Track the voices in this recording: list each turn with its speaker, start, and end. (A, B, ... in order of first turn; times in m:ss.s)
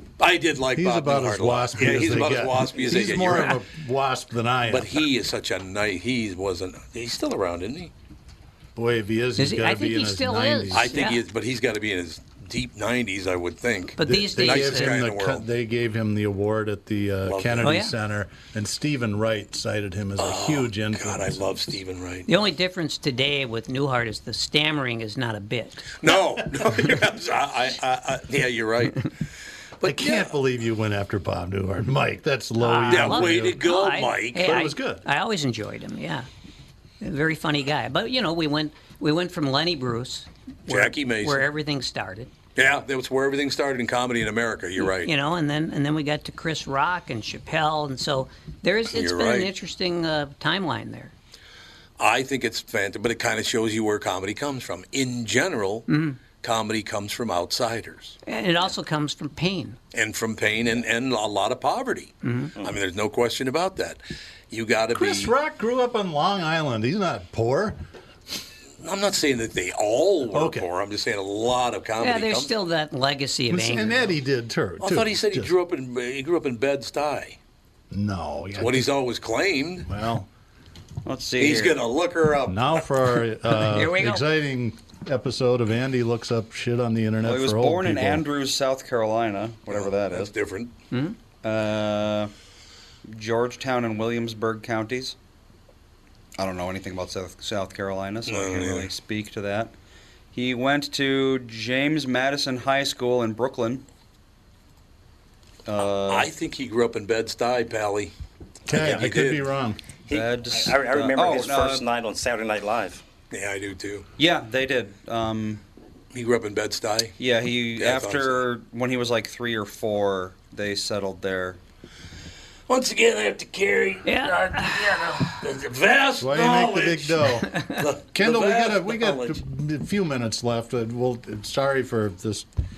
0:00.2-0:03.6 A
0:00.7-0:05.0 B
0:04.7-0:07.9 A
0:08.8-0:11.0 B
0:09.4-0:11.2 C
0:10.7-0:15.4 A
0:14.0-0:15.0 C
0:14.0-0:21.4 B
0:17.2-0:17.7 A
0:17.6-0:17.9 C
0:20.2-0:22.3 A
0:22.3-0:26.0 C
0:26.0-0:29.1 A
0:29.8-0:30.3 A
0:29.8-0:33.6 B
0:32.6-0:36.3 C
0:32.9-0:34.5 A
0:34.4-0:35.0 B
0:37.0-0:42.3 C
0:40.7-0:41.5 A
0:42.6-0:45.1 A
0:44.8-0:51.1 C
0:48.9-0:49.5 A
0:52.0-0:58.2 A
0:55.9-0:56.2 C
0:58.3-0:59.8 C
0:59.9-1:04.0 A
1:02.2-1:02.5 C
1:04.5-1:05.3 A
1:05.0-1:07.8 B
1:08.8-1:12.5 A
1:10.3-1:10.7 B
1:12.0-1:14.1 C
1:13.5-1:15.5 B
1:14.8-1:17.4 A
1:17.9-1:18.9 B
1:18.6-1:19.9 A
1:19.9-1:20.3 B
1:21.1-1:21.8 D
1:21.4-1:22.8 A
1:22.5-1:28.2 B
1:23.6-1:24.3 C
1:27.2-1:30.3 D
1:29.7-1:30.7 A
1:30.9-1:31.2 C
1:31.4-1:32.3 D
1:33.1-1:35.2 D
1:36.4-1:39.7 D
1:38.3-1:38.9 A
1:40.3-1:43.8 D
1:45.7-1:46.3 D
1:45.8-1:48.1 A
1:48.7-1:49.5 A
1:48.7-1:49.8 B
1:50.1-1:53.0 E
1:50.1-1:51.8 D
1:53.3-1:54.1 A
1:54.2-1:55.6 D
1:56.1-1:57.2 A
1:57.2-2:01.6 D
1:57.8-1:58.5 A
2:02.7-2:09.4 A
2:04.0-2:05.1 C
2:06.2-2:12.5 B